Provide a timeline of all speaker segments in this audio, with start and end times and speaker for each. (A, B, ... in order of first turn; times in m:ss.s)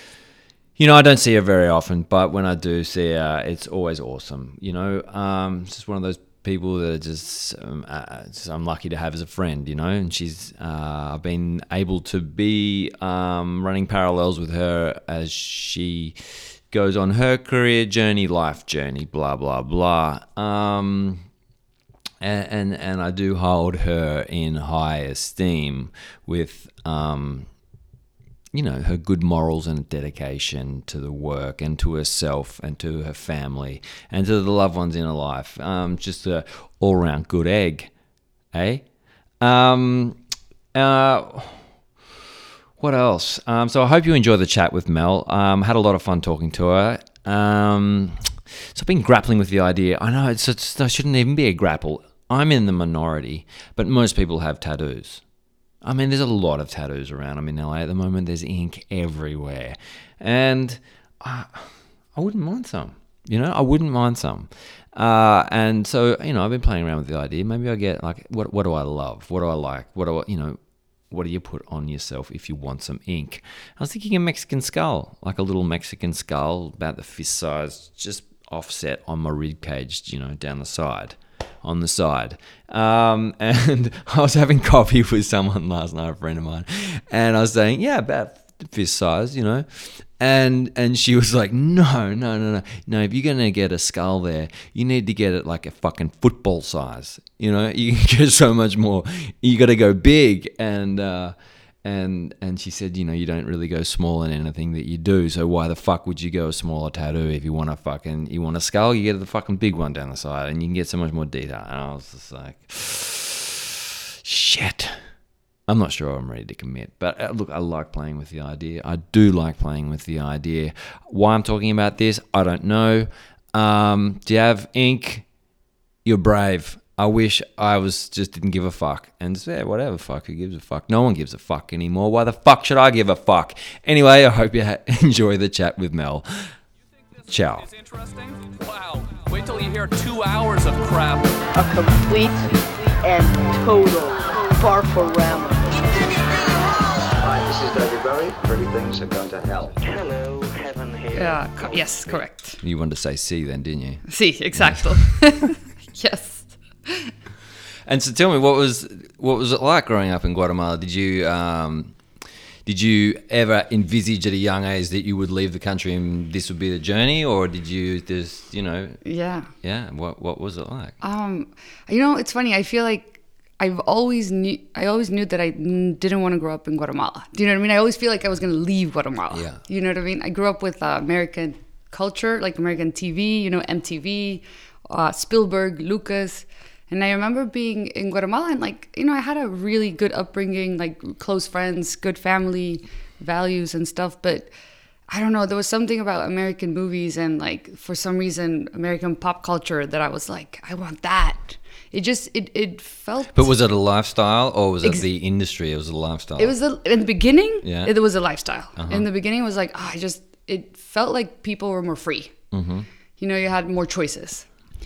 0:00.8-0:21.2 A
0:22.2-0:27.5 A
0:28.5-0:37.9 A
0:38.5-0:38.8 A
0:39.4-0:40.2 A
0:40.7-0:41.6 A
0:42.8-0:55.2 A
0:55.8-1:10.6 A
1:11.1-1:55.0 A
1:55.7-2:05.2 A
2:06.0-2:16.3 A
2:17.2-2:21.4 B
2:17.3-2:17.6 A
2:21.5-2:26.2 C
2:27.2-2:29.8 D
2:29.8-2:32.2 E
2:31.1-2:32.6 F
2:32.6-2:35.0 A
2:34.1-2:37.1 F
2:37.9-2:42.0 A
2:42.7-2:49.0 A
2:49.0-2:49.5 F
2:49.6-2:51.0 A
2:51.0-3:14.5 F
2:59.3-2:59.6 A
3:15.1-3:23.5 F
3:23.3-3:26.6 A
3:26.4-3:32.4 F
3:27.6-3:27.9 A
3:28.8-3:29.1 A
3:32.5-3:32.9 A
3:33.2-3:34.5 F